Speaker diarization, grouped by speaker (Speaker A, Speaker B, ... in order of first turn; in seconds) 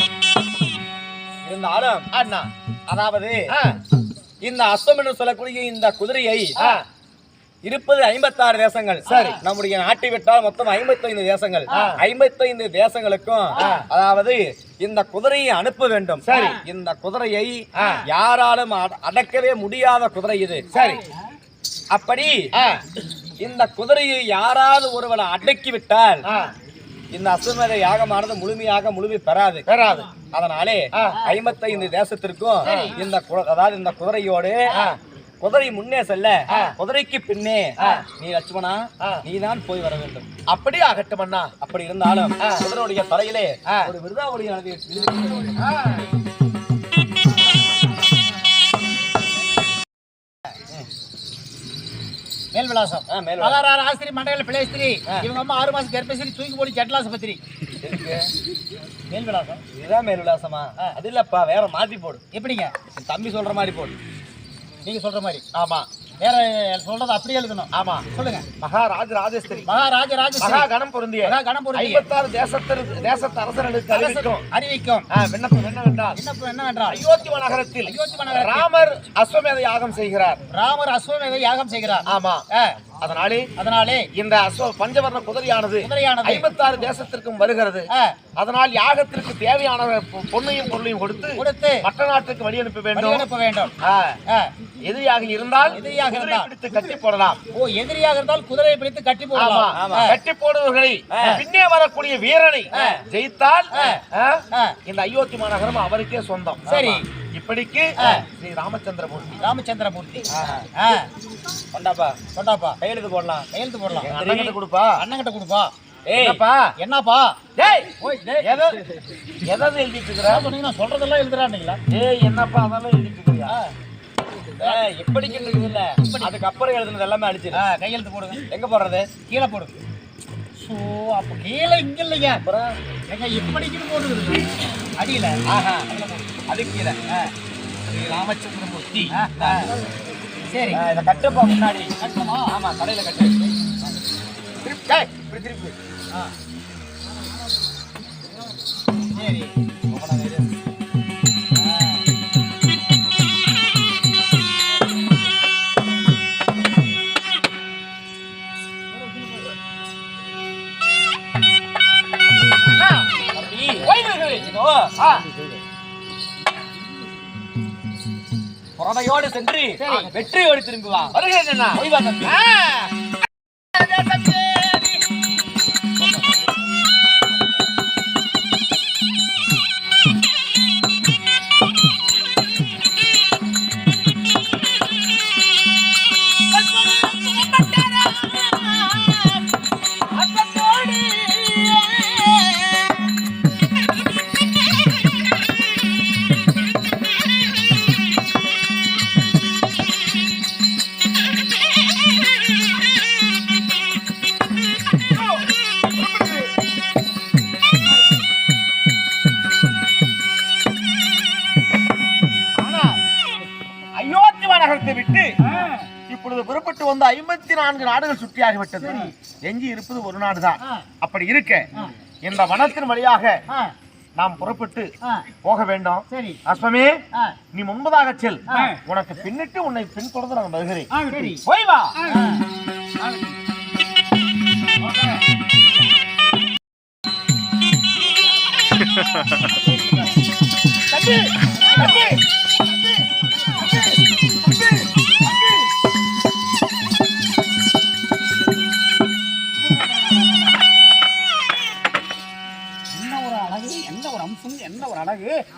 Speaker A: 1.4-2.1, 2.9-3.4, 4.4-6.5, 7.6-20.7, 21.9-22.4, 23.4-26.3, 27.1-29.7, 30.2-34.7, 35.4-40.3, 41.6-46.0, 53.1-53.6, 57.8-58.3, 59.7-62.2, 63.0-64.0, 99.7-100.2, 101.1-101.4, 110.3-110.7, 111.7-112.2, 112.8-113.5, 114.0-114.5, 116.1-116.4, 124.6-127.6, 128.5-129.1, 132.4-132.8, 135.5-135.9, 136.5-137.2, 137.9-139.9, 140.7-141.9, 142.5-143.9, 145.1-145.7, 149.9-150.5, 163.3-164.9, 168.8-171.2, 171.7-172.4, 231.5-231.9
Speaker B: 2.1-2.5, 3.5-3.8, 6.6-6.8, 9.1-9.4, 11.7-12.0, 13.6-13.9, 16.2-16.6, 17.8-18.0, 20.7-21.1, 22.5-22.8, 26.2-26.5, 29.7-30.1, 30.9-31.3, 32.6-33.0, 34.7-35.0, 36.5-36.8, 37.8-38.0, 40.5-41.5, 43.7-43.9, 65.5-65.9, 67.7-68.1, 68.6-69.7, 70.4-74.5, 75.1-76.2, 76.9-80.4, 82.0-82.4, 83.0-83.5, 84.2-87.9, 88.4-93.3, 93.8-94.2, 94.8-97.4, 99.3-109.4, 114.0-115.0, 116.2-116.7, 117.6-118.8, 119.5-120.5, 121.9-123.5, 144.7-145.1, 162.7-163.1, 163.9-164.3, 165.0-165.3, 169.8-170.2, 171.1-172.9, 173.8-175.0, 212.6-213.0, 213.9-215.4, 216.1-221.7, 222.2-223.4, 224.2-224.9, 225.4-227.0, 227.5-230.9
Speaker C: 9.1-9.4, 11.7-12.0, 13.6-13.8, 32.6-33.0, 52.5-57.4, 59.1-59.6, 62.3-62.7, 64.8-65.5, 66.2-68.5, 69.7-70.7, 71.2-72.0, 73.9-75.1, 76.2-77.0, 77.9-78.7, 80.5-82.8, 83.6-84.1, 85.8-86.5, 87.9-88.2, 91.4-91.9, 93.0-93.7, 94.3-94.5, 95.7-96.5, 97.5-100.2, 102.7-103.0, 103.7-104.8, 106.7-107.0, 108.0-108.3, 109.4-111.1, 112.3-112.8, 113.5-114.1, 115.0-115.7, 116.8-117.4, 118.0-118.6, 120.3-121.8, 123.5-123.7, 126.0-126.3, 127.5-128.4, 129.3-129.7, 130.6-132.4, 133.1-135.4, 135.9-136.3, 139.1-139.7, 140.5-140.8, 142.0-142.5, 149.1-149.6, 151.6-152.1, 186.8-188.7, 190.7-191.4, 218.8-219.1, 223.5-223.7, 226.1-226.4, 228.5-228.8, 230.9-231.4, 232.0-232.4, 240.9-242.2, 249.9-250.4, 252.9-255.4